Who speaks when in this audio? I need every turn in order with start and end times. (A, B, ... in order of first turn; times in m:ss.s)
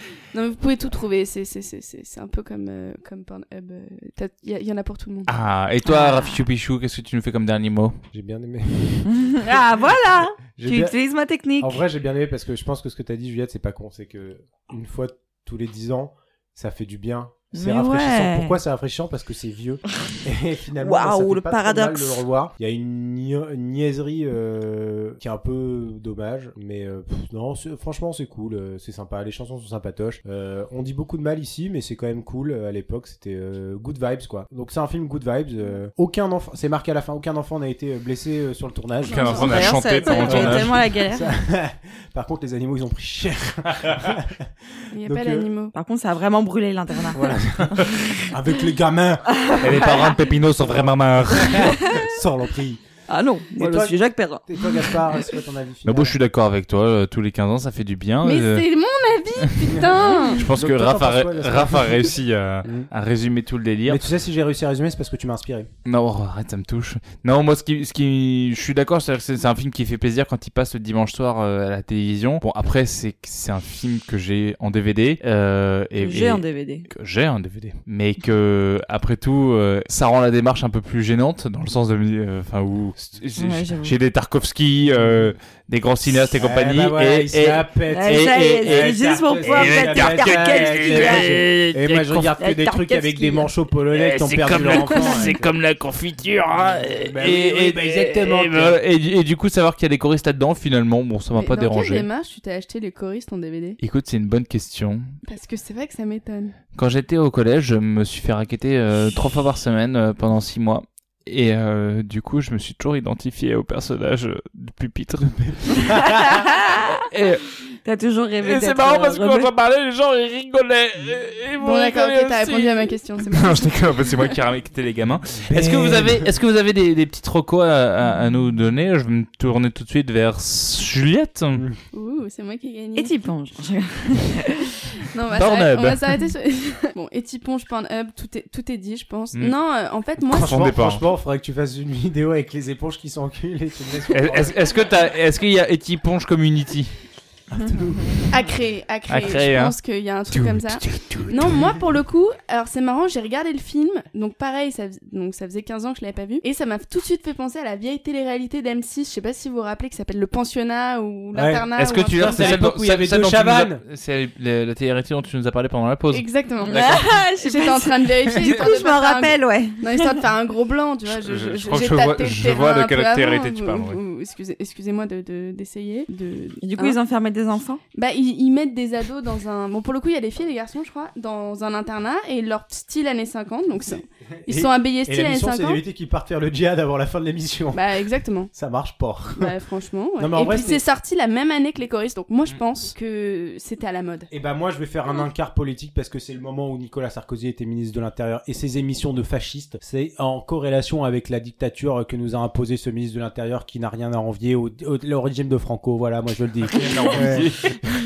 0:00.3-0:05.3 A
0:05.3-0:08.0 B
0:05.8-0:06.4 C
0:08.1-0:09.6 D
0:09.0-0:11.8 C
0:10.5-0:11.0 D
0:11.6-0:45.5 D
0:17.5-0:18.6 C
0:20.8-0:22.2 C
0:39.1-0:40.2 A
0:39.1-0:40.8 B
0:39.4-0:41.3 C
0:44.9-0:45.7 A
0:45.7-0:48.3 C
0:47.1-0:49.9 D
0:49.3-0:50.2 C
0:49.6-0:51.9 B
0:50.5-0:52.8 D
0:51.6-0:52.1 C
0:53.1-0:55.0 C
0:53.6-0:56.2 D
0:55.8-0:58.6 B
0:58.2-1:00.4 A
0:59.7-1:02.9 D
1:00.3-1:04.1 B
1:03.8-1:05.7 D
1:05.8-1:32.3 B
1:16.0-1:16.9 C
1:23.4-1:23.9 C
1:24.9-1:25.3 D
1:26.2-1:35.6 D
1:27.9-1:31.5 C
1:32.1-1:33.5 C
1:33.9-1:42.1 B
1:36.8-1:38.8 D
1:41.4-1:43.8 A
1:43.8-1:45.1 B
1:45.2-1:46.5 A
1:46.7-1:55.9 B
1:55.2-1:56.5 D
1:56.0-1:57.0 C
1:57.1-1:57.4 B
1:57.8-1:59.5 C
1:58.4-2:11.6 B
2:01.6-2:04.0 A
2:05.4-2:06.3 D
2:11.5-2:11.8 D
2:11.9-2:13.1 A
2:13.0-2:14.8 C
2:15.0-2:20.7 A
2:15.3-2:16.0 B
2:20.2-2:24.9 D
2:20.3-2:21.0 B
2:24.1-2:26.9 B
2:27.5-2:28.1 D
2:28.3-2:42.6 A
2:29.1-2:29.7 B
2:30.3-2:31.6 B
2:41.3-2:43.8 D
2:41.8-2:47.2 B
2:46.1-2:57.0 A
2:46.6-2:50.2 C
2:51.1-2:54.0 B
2:56.6-2:57.8 C
2:57.9-3:05.8 A
3:04.5-3:07.8 D
3:07.7-3:08.5 A
3:08.5-3:09.6 D
3:09.3-3:14.3 A
3:10.2-3:10.8 D
3:14.3-3:27.7 D
3:26.7-3:27.7 B